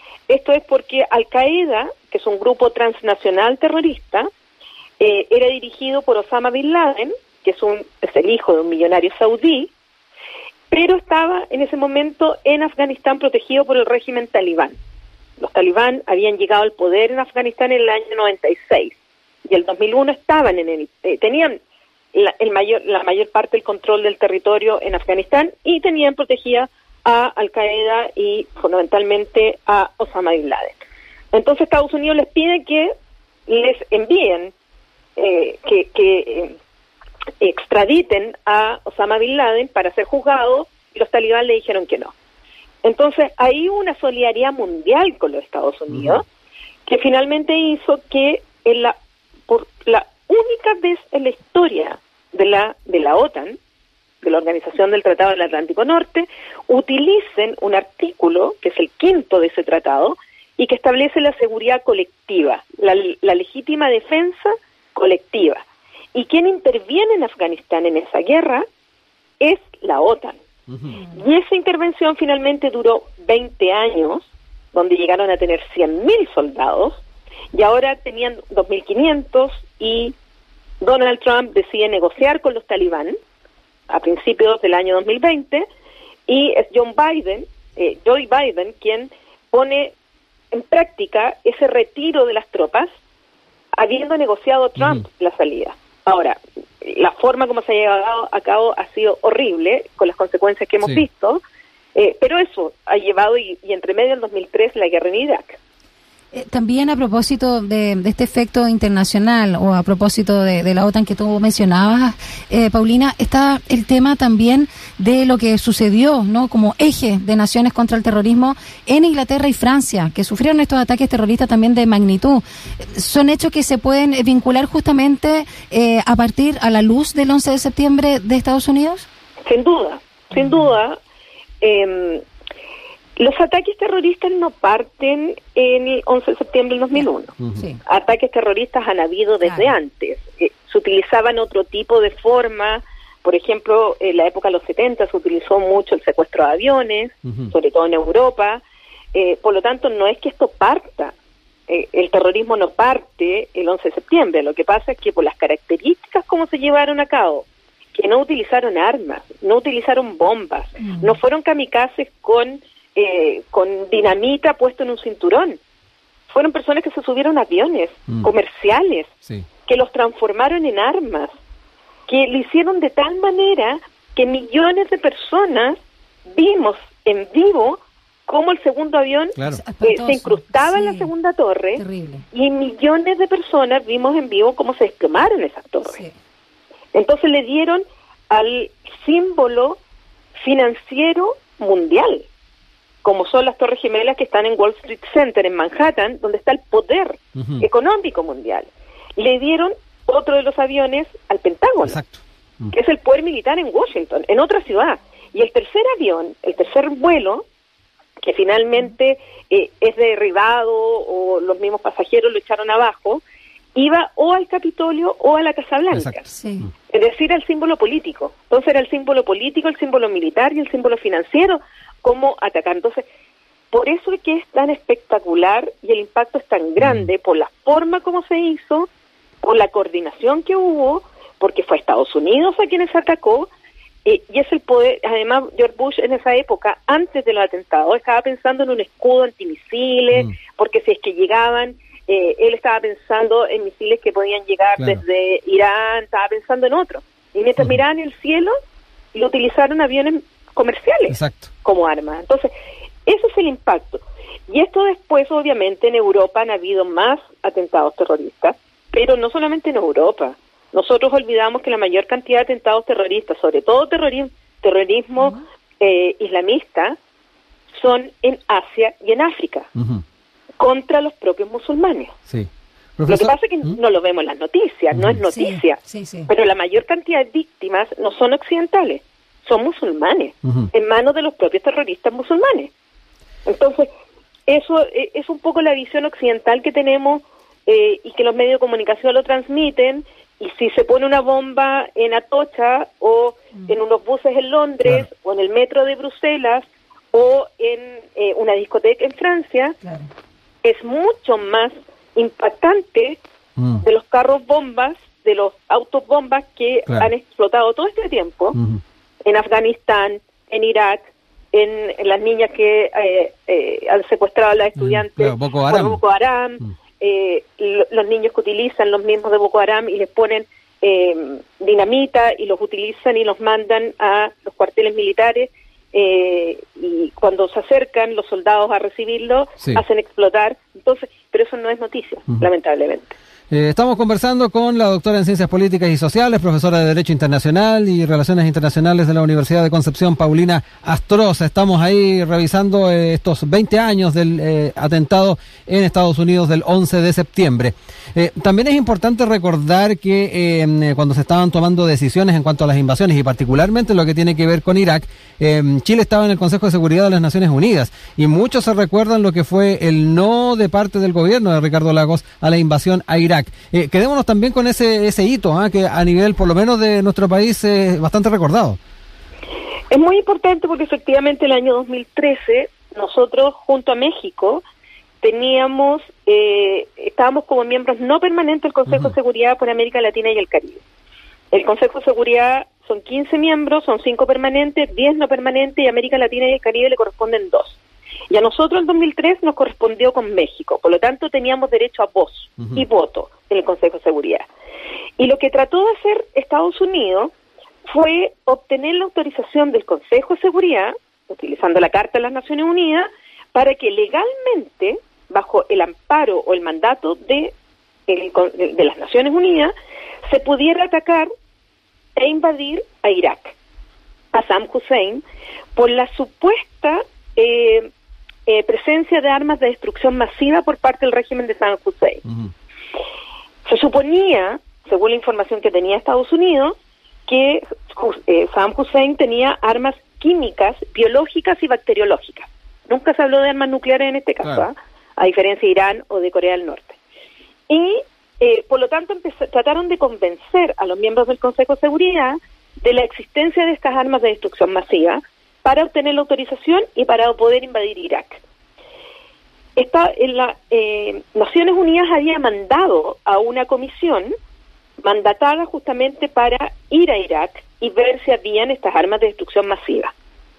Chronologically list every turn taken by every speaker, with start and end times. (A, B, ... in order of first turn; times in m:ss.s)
0:00.3-0:04.3 A
0:05.0-0:09.7 A
0:10.7-0:14.8 A
0:15.4-0:18.9 A
0:19.4-0:21.5 A
0:22.1-0:30.8 A
0:31.3-0:32.9 A
0:33.5-0:34.5 A
0:35.2-0:36.6 A
0:37.4-0:42.1 A
0:42.8-0:46.2 A
0:45.9-0:46.2 B
0:46.9-0:49.0 A
0:49.5-0:53.6 A
0:54.2-1:08.6 A
1:09.4-1:10.4 A
1:11.1-1:17.0 A
1:17.5-1:20.1 A
1:20.8-1:23.2 A
1:23.9-1:25.6 A
1:26.3-1:29.9 A
1:30.5-1:32.9 A
1:33.7-1:41.4 A
1:41.9-1:45.6 A
1:46.3-2:09.0 C
2:09.4-2:11.0 A
2:11.6-2:12.2 A
2:13.2-2:17.3 A
2:17.8-2:28.6 A
2:19.4-2:19.7 C
2:29.1-2:31.1 A
2:31.7-2:45.6 A
2:40.8-2:41.1 C
2:46.3-2:49.1 A
2:49.6-2:51.3 A
2:52.1-2:55.8 A
2:56.3-3:06.0 A
2:59.4-2:59.6 B
2:59.5-3:01.1 C
3:01.8-3:02.2 C
3:05.8-3:06.1 C
3:06.9-3:09.8 A
3:10.4-3:12.3 A
3:13.0-3:22.0 A
3:17.4-3:17.6 B
3:21.8-3:22.7 B
3:22.7-3:27.4 A
3:28.2-3:33.2 A
3:33.7-3:36.3 A
3:36.3-3:36.7 C
3:36.9-3:43.0 A
3:43.7-3:48.9 A
3:46.8-3:47.1 B
3:49.4-3:53.5 A
3:54.0-4:08.5 A
4:09.1-4:12.5 A
4:11.1-4:11.5 B
4:13.0-4:27.0 A
4:27.8-4:29.7 A
4:29.8-4:30.0 B
4:30.6-4:32.1 A
4:32.3-4:33.7 B
4:33.1-4:42.7 A
4:34.9-4:35.2 B
4:35.3-4:36.3 C
4:43.4-4:43.9 A
4:44.5-4:59.8 A
4:59.8-5:00.1 C
5:00.6-5:03.2 A
5:03.8-5:08.6 A
5:08.5-5:08.8 B
5:09.2-5:11.0 A
5:11.5-5:33.1 A
5:14.8-5:16.0 B
5:33.5-6:08.8 B
6:09.9-6:14.6 A
6:15.2-6:20.8 A
6:21.5-6:27.8 A
6:28.3-6:34.5 A
6:35.2-6:37.3 A
6:37.9-6:47.5 A
6:48.1-6:49.7 A
6:50.3-6:51.3 A
6:52.2-6:53.5 A
6:54.3-6:55.2 A
6:55.8-6:57.9 A
6:58.5-7:02.2 A
7:03.6-7:17.0 A
7:17.7-7:28.4 A
7:29.8-7:34.3 A
7:35.0-7:40.1 A